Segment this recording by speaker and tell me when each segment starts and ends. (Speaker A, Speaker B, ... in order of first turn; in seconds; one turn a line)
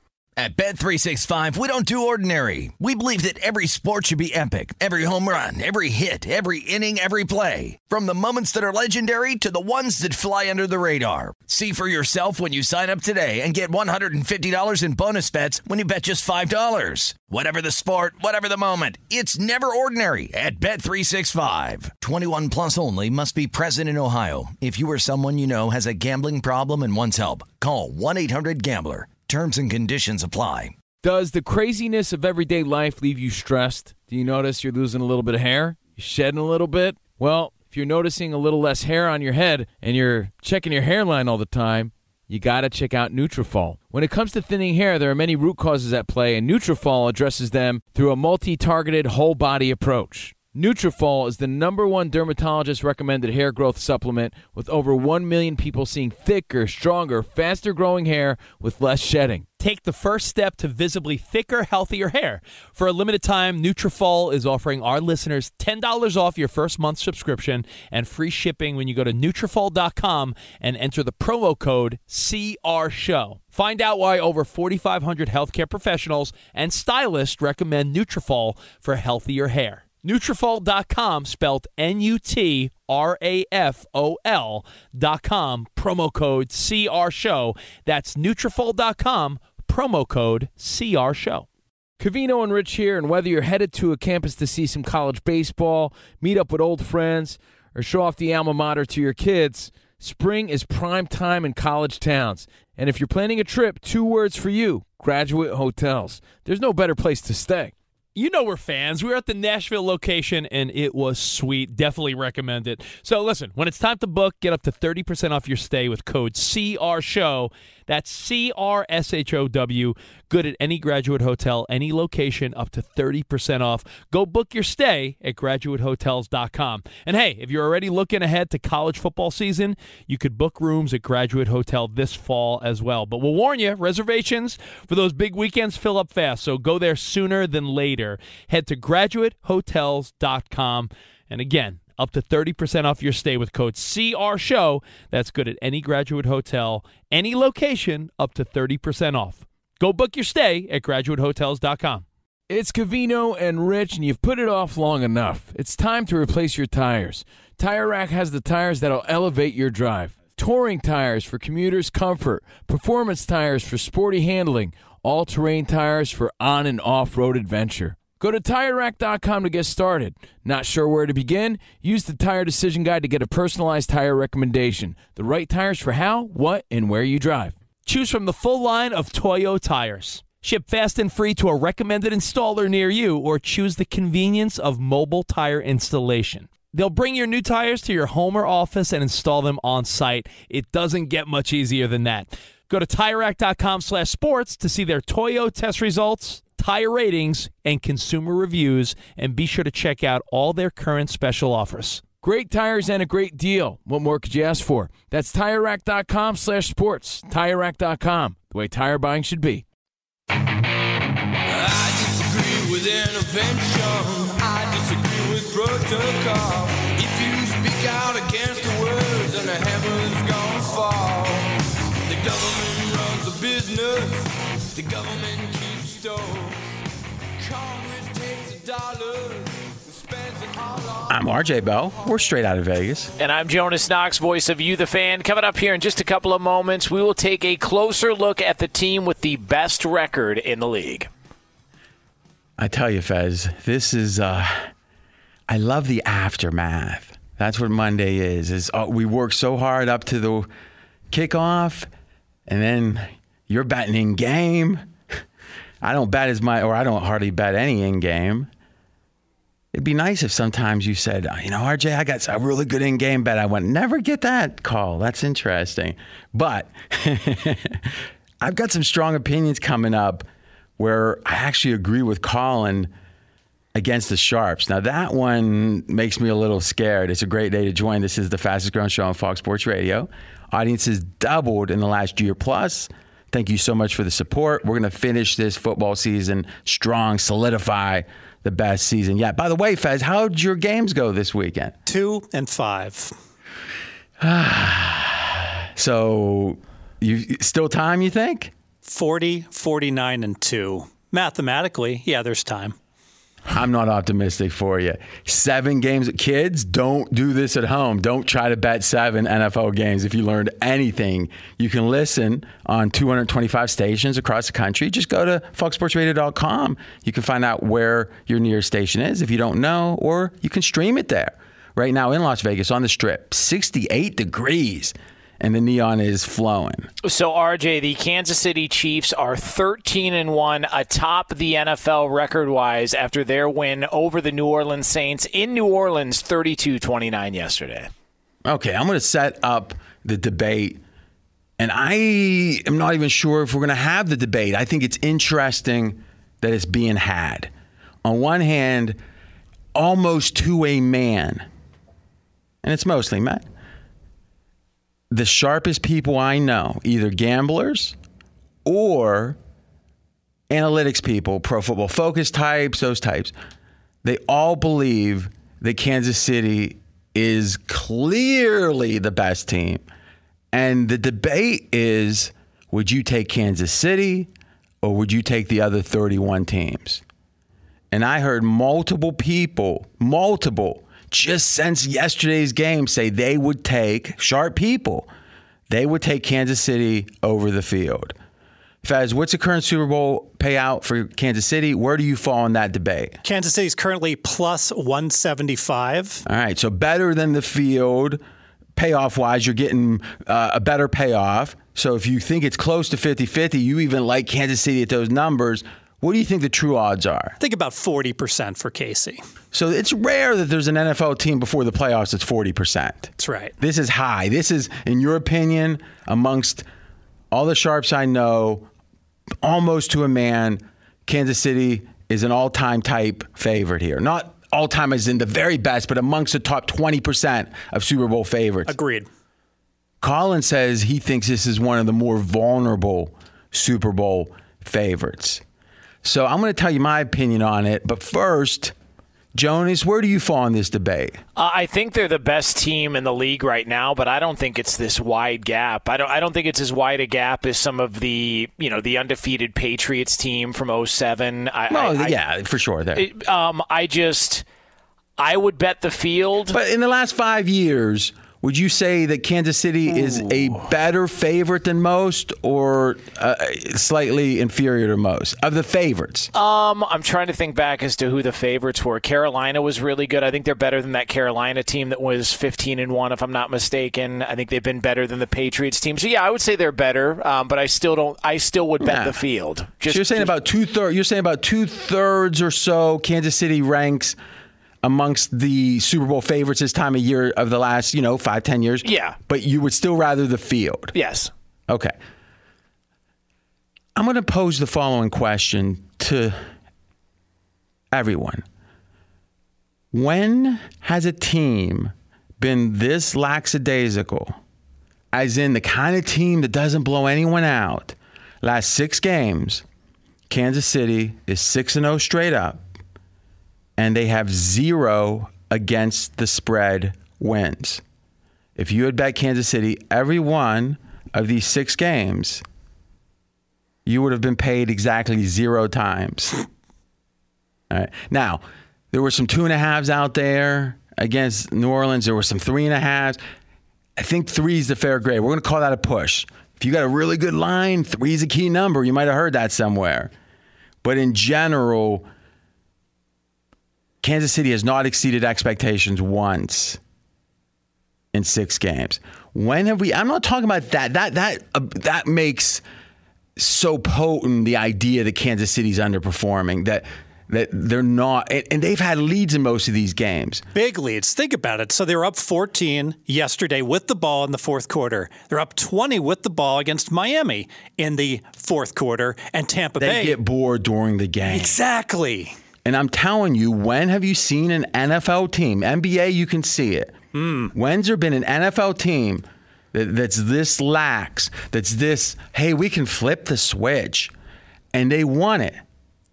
Speaker A: 0.4-30.7
Speaker B: 31.0-59.5
Speaker C: 59.6-91.5
Speaker B: 92.0-107.7
Speaker C: 108.1-152.0
Speaker B: 152.5-177.6
Speaker C: 177.8-202.1
Speaker B: 202.2-209.6
Speaker D: 211.4-221.5
Speaker D: 222.1-226.6
Speaker D: 227.4-231.2
Speaker E: 231.1-233.1
Speaker F: 233.2-241.1
Speaker E: 242.6-244.7
Speaker E: 245.5-250.5
Speaker E: 251.1-251.9
Speaker E: 252.5-254.8
Speaker E: 255.8-258.5
Speaker E: 259.7-270.2
Speaker E: 270.8-272.9
Speaker E: 273.7-291.7
Speaker G: 291.9-293.1
Speaker E: 294.2-298.5
Speaker G: 298.8-302.7
Speaker E: 303.5-326.9
Speaker F: 327.0-337.9
Speaker E: 338.4-340.8
Speaker E: 341.6-347.5
Speaker E: 348.0-349.0
Speaker E: 349.7-351.4
Speaker E: 352.6-353.4
Speaker E: 355.1-357.9
Speaker E: 358.6-359.4
Speaker E: 360.5-363.3
Speaker E: 364.0-369.8
Speaker E: 370.5-374.3
Speaker E: 374.8-377.0
Speaker E: 377.9-385.1
Speaker E: 385.7-388.1
Speaker E: 388.8-393.2
Speaker G: 393.2-396.2
Speaker E: 396.2-398.2
Speaker E: 398.8-407.4
Speaker G: 407.4-409.2
Speaker E: 409.5-416.6
Speaker G: 413.2-413.5
Speaker E: 417.3-418.7
Speaker E: 419.4-428.7
Speaker G: 428.7-429.1
Speaker E: 430.0-435.4
Speaker E: 436.0-438.7
Speaker E: 439.3-441.2
Speaker F: 441.4-452.1
Speaker E: 451.7-453.0
Speaker F: 452.9-454.4
Speaker F: 455.2-456.6
Speaker E: 456.5-466.3
Speaker F: 466.3-480.3
Speaker E: 478.8-479.1
Speaker E: 479.9-484.2
Speaker E: 484.8-490.9
Speaker F: 488.8-489.2
Speaker F: 490.9-491.3
Speaker E: 493.9-496.4
Speaker E: 497.9-498.4
Speaker E: 499.9-504.4
Speaker E: 505.1-509.6
Speaker E: 510.3-512.6
Speaker E: 513.8-517.8
Speaker E: 518.5-522.4
Speaker E: 523.9-526.4
Speaker E: 527.7-533.2
Speaker E: 534.0-540.1
Speaker E: 540.8-542.0
Speaker E: 544.0-546.8
Speaker E: 548.1-552.6
Speaker E: 553.4-560.4
Speaker G: 560.5-570.2
Speaker E: 569.8-571.6
Speaker G: 571.3-572.3
Speaker E: 572.6-577.0
Speaker G: 577.1-577.5
Speaker E: 577.5-584.1
Speaker E: 584.7-585.6